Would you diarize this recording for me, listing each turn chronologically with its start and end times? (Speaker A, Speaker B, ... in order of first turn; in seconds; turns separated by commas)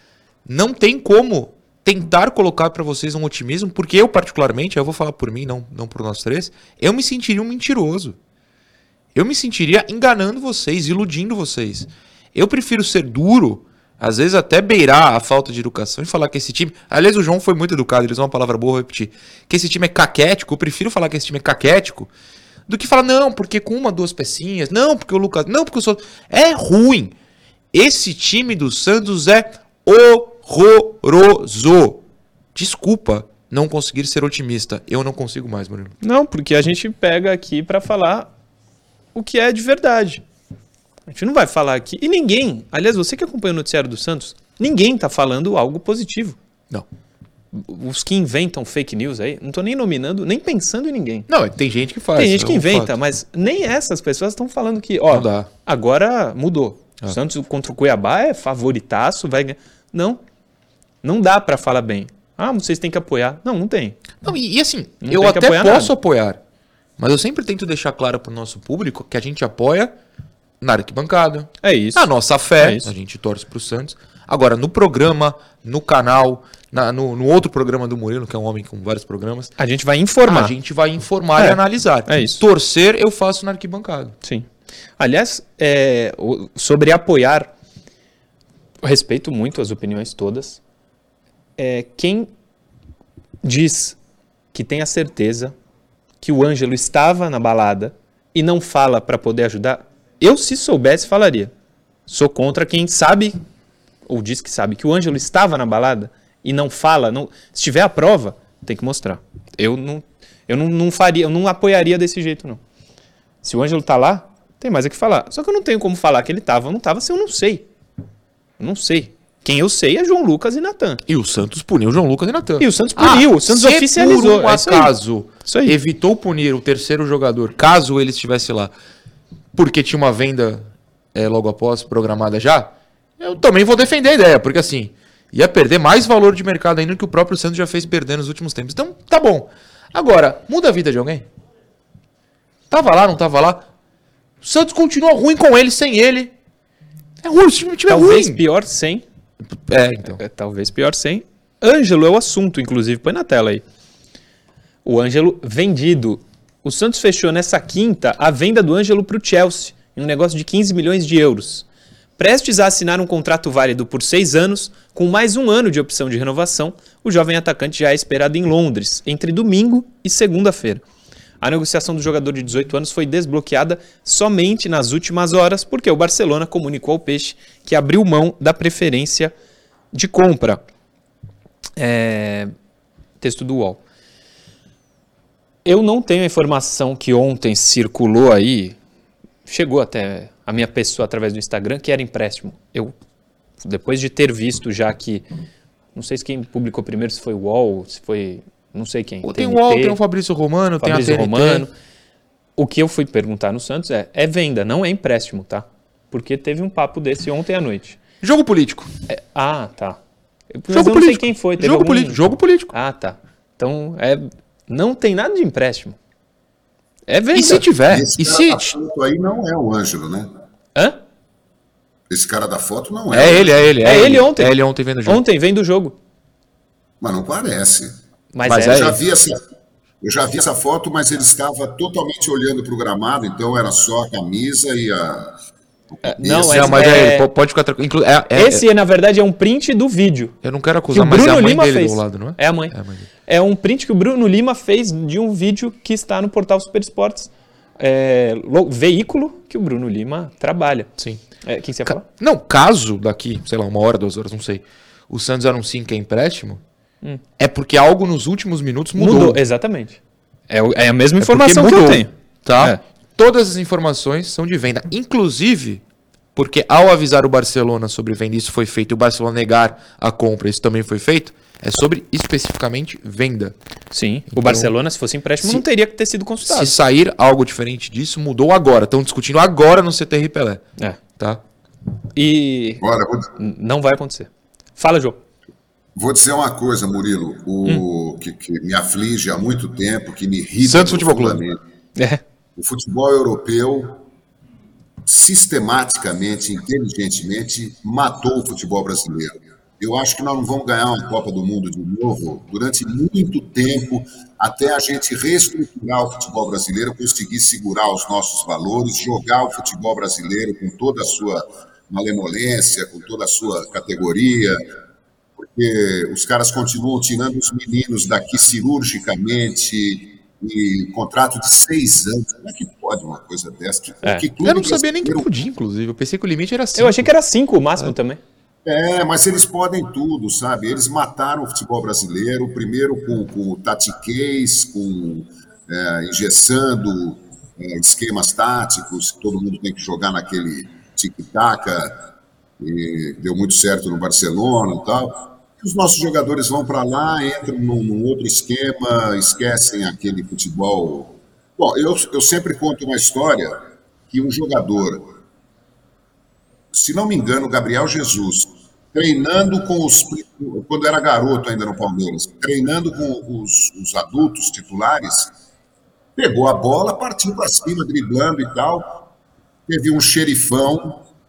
Speaker A: 0.4-8.2, Speaker A: 9.1-22.1, Speaker A: 22.7-27.1, Speaker A: 27.7-32.0, Speaker A: 32.5-36.0, Speaker B: 36.0-38.3, Speaker B: 39.1-40.2, Speaker B: 41.1-46.4, Speaker B: 47.5-51.3, Speaker A: 51.3-52.9, Speaker B: 52.1-60.2, Speaker A: 55.1-55.5, Speaker B: 61.0-64.0, Speaker A: 64.2-66.4, Speaker B: 65.0-65.9, Speaker A: 67.0-69.9, Speaker A: 70.6-79.5, Speaker B: 71.6-72.1, Speaker B: 72.6-72.9, Speaker B: 79.6-80.5, Speaker A: 80.2-84.1, Speaker B: 81.4-82.4, Speaker B: 85.0-87.5, Speaker B: 88.8-90.6, Speaker B: 91.6-92.3, Speaker B: 93.4-94.0, Speaker B: 94.5-95.5, Speaker B: 96.2-101.5, Speaker B: 102.1-103.4, Speaker B: 104.1-112.6, Speaker B: 113.4-117.7, Speaker B: 118.6-121.0, Speaker A: 121.0-128.7, Speaker B: 122.6-124.9, Speaker B: 125.4-125.7, Speaker A: 129.5-141.3, Speaker A: 142.7-143.7, Speaker A: 144.4-146.3, Speaker A: 147.2-148.4, Speaker B: 147.9-149.0, Speaker A: 149.5-150.2, Speaker B: 150.1-153.6, Speaker B: 154.8-161.7, Speaker B: 162.2-170.8, Speaker B: 171.4-179.3, Speaker B: 179.9-180.6, Speaker B: 181.8-182.5, Speaker B: 183.2-183.8, Speaker B: 185.6-188.8, Speaker B: 189.4-192.9, Speaker B: 193.6-195.2, Speaker B: 195.9-200.0, Speaker A: 199.2-201.6, Speaker B: 200.8-201.7, Speaker B: 202.6-208.0, Speaker A: 208.2-208.9, Speaker B: 209.1-210.0, Speaker B: 210.5-215.9, Speaker A: 210.7-212.7, Speaker B: 217.1-217.7, Speaker A: 217.3-218.7, Speaker C: 217.8-220.3, Speaker B: 220.7-221.0, Speaker C: 222.1-223.6, Speaker A: 223.1-225.2, Speaker B: 223.8-225.9, Speaker C: 227.0-229.4, Speaker B: 228.3-229.0, Speaker A: 228.4-229.0, Speaker C: 230.0-235.3, Speaker C: 235.9-236.9, Speaker B: 236.0-237.3, Speaker A: 236.4-238.6, Speaker B: 238.3-240.3, Speaker A: 240.4-243.1, Speaker B: 240.9-242.7, Speaker B: 243.2-250.9, Speaker B: 251.4-252.1, Speaker A: 251.8-256.6, Speaker A: 257.4-259.4, Speaker B: 258.9-262.8, Speaker A: 261.2-265.8, Speaker A: 266.3-273.5, Speaker B: 273.9-276.8, Speaker A: 274.3-274.7, Speaker A: 276.4-280.6, Speaker A: 281.2-281.4, Speaker B: 282.1-282.8, Speaker C: 282.8-283.3, Speaker B: 283.4-285.2, Speaker C: 285.9-291.6, Speaker A: 290.6-291.4, Speaker B: 291.9-292.2, Speaker C: 292.6-294.0, Speaker C: 295.1-314.6, Speaker C: 315.4-325.3, Speaker A: 324.4-327.1, Speaker B: 326.8-328.2, Speaker C: 328.6-342.1, Speaker C: 342.6-353.6, Speaker C: 354.1-355.1, Speaker C: 356.7-365.3, Speaker C: 366.1-369.0, Speaker C: 369.7-371.1